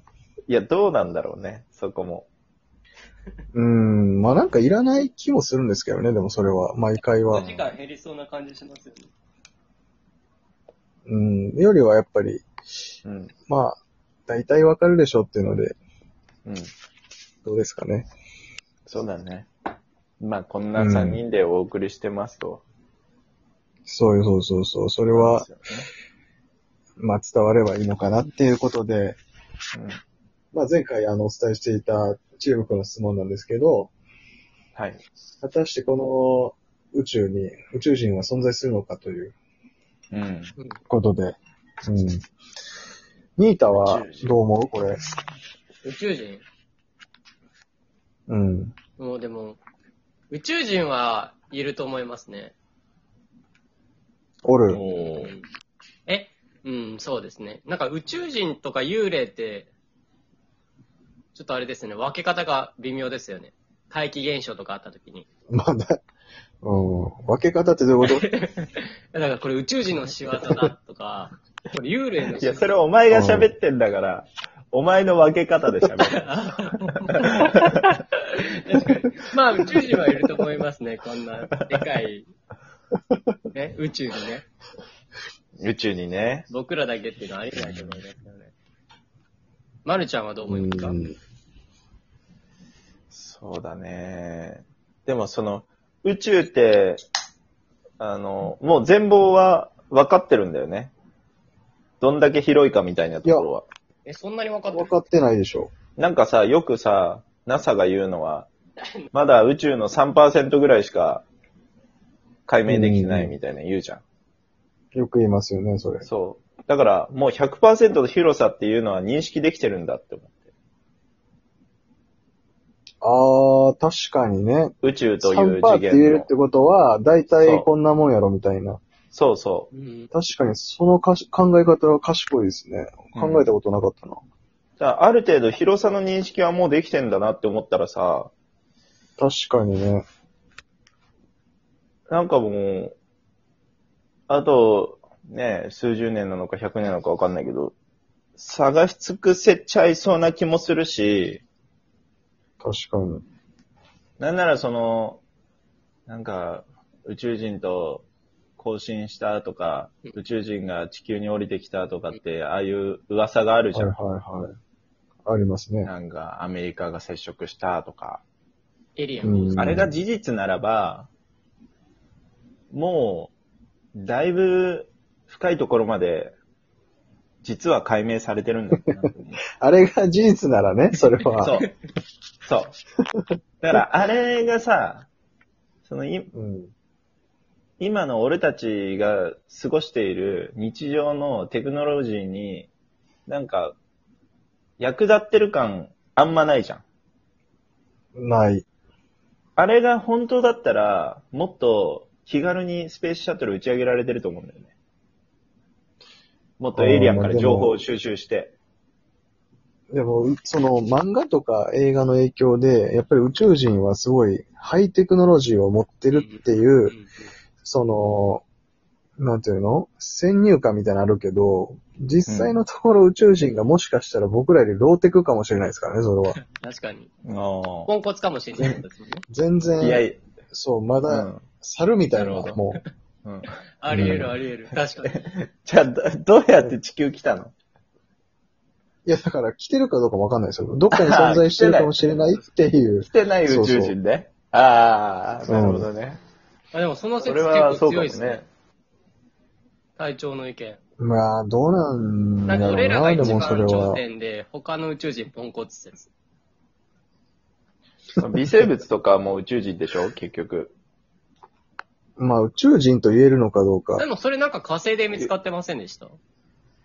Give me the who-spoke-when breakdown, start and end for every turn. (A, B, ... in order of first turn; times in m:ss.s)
0:00.5-0:02.3 A
0:03.5-0:07.5 B
0:07.3-0:09.1 C
0:07.3-0:07.7 A
0:11.1-0:12.5 B
0:13.0-0:13.3 A
0:13.5-0:15.8 B
0:17.4-0:18.1 B
0:18.9-0:19.5 A
0:20.2-0:22.6 A
0:20.8-0:21.2 B
0:23.8-0:25.5 B
0:25.1-0:25.9 A
0:27.0-0:29.2 B
0:30.5-0:33.9 B
0:34.8-0:35.0 A
0:35.4-0:39.4 B
0:40.1-0:40.5 A
0:40.9-0:42.2 B
0:43.4-0:45.0 B
0:43.8-0:44.4 A
0:45.8-0:46.4 C
0:48.3-0:48.8 B
0:49.0-0:49.6 C
0:50.3-0:52.6 C
0:54.5-0:54.8 B
0:54.7-0:55.3 A
0:54.9-0:55.4 C
0:56.1-0:59.7 C
1:01.4-1:05.3 C
1:05.5-1:06.0 B
1:06.6-1:08.3 B
1:08.1-1:12.8 C
1:12.4-1:17.8 A
1:13.1-1:13.5 B
1:16.0-1:22.3 C
1:23.5-1:24.4 C
1:25.6-1:26.5 A
1:26.5-1:28.5 C
1:27.6-1:28.0 A
1:29.8-1:31.0 C
1:30.5-1:31.2 B
1:33.1-1:37.0 A
1:38.0-1:40.9 A
1:42.0-1:43.7 A
1:44.0-1:44.9 C
1:44.7-1:45.7 B
1:46.0-1:48.5 A
1:49.1-1:51.2 A
1:52.5-1:54.0 A
1:52.7-1:53.4 B
1:54.9-1:56.1 B
1:56.0-2:00.4 A
2:03.0-2:08.8 B
2:04.8-2:06.3 A
2:07.3-2:07.7 A
2:09.1-2:09.7 A
2:09.7-2:10.1 C
2:10.1-2:14.2 B
2:13.1-2:13.5 A
2:14.8-2:18.3 A
2:19.2-2:20.0 B
2:22.1-2:23.0 A
2:24.3-2:27.7 A
2:28.4-2:31.4 A
2:32.6-2:33.2 B
2:34.2-2:35.2 A
2:36.1-2:38.0 A
2:38.6-2:44.0 A
2:43.7-2:44.6 B
2:45.3-2:45.9 B
2:45.8-2:48.2 A
2:49.0-2:49.8 C
2:49.2-2:49.9 B
2:49.6-2:51.1 A
2:52.7-2:53.3 A
2:54.0-2:56.4 A
2:57.4-2:59.4 A
2:58.8-2:59.0 B
2:59.6-3:01.6 B
3:01.4-3:01.7 A
3:02.4-3:02.8 A
3:03.6-3:05.1 A
3:05.9-3:06.3 A
3:06.3-3:06.7 B
3:07.8-3:12.7 A
3:13.3-3:13.8 A
3:14.8-3:16.8 A
3:18.2-3:18.6 B
3:19.6-3:24.7 A
3:26.6-3:28.5 A
3:26.7-3:27.8 B
3:29.9-3:37.0 B
3:36.1-3:37.3 C
3:37.6-3:38.4 B
3:39.2-3:46.4 B
3:42.3-3:42.6 A
3:46.5-3:47.1 C
3:47.3-3:47.9 A
3:47.9-3:49.2 C
3:49.3-3:52.8 B
3:49.8-3:50.2 A
3:51.1-3:51.4 A
3:52.1-3:52.6 A
3:53.2-3:54.3 A
3:53.8-3:55.2 C
3:53.9-3:54.4 B
3:55.0-3:57.5 A
3:59.0-4:04.0 B
4:01.0-4:02.0 A
4:03.1-4:06.2 A
4:05.4-4:05.9 B
4:06.7-4:08.4 C
4:07.2-4:08.5 A
4:10.0-4:10.8 C
4:11.0-4:14.0 B
4:12.4-4:16.1 C
4:13.2-4:13.7 A
4:18.2-4:20.7 A
4:22.2-4:24.0 B
4:24.0-4:26.2 C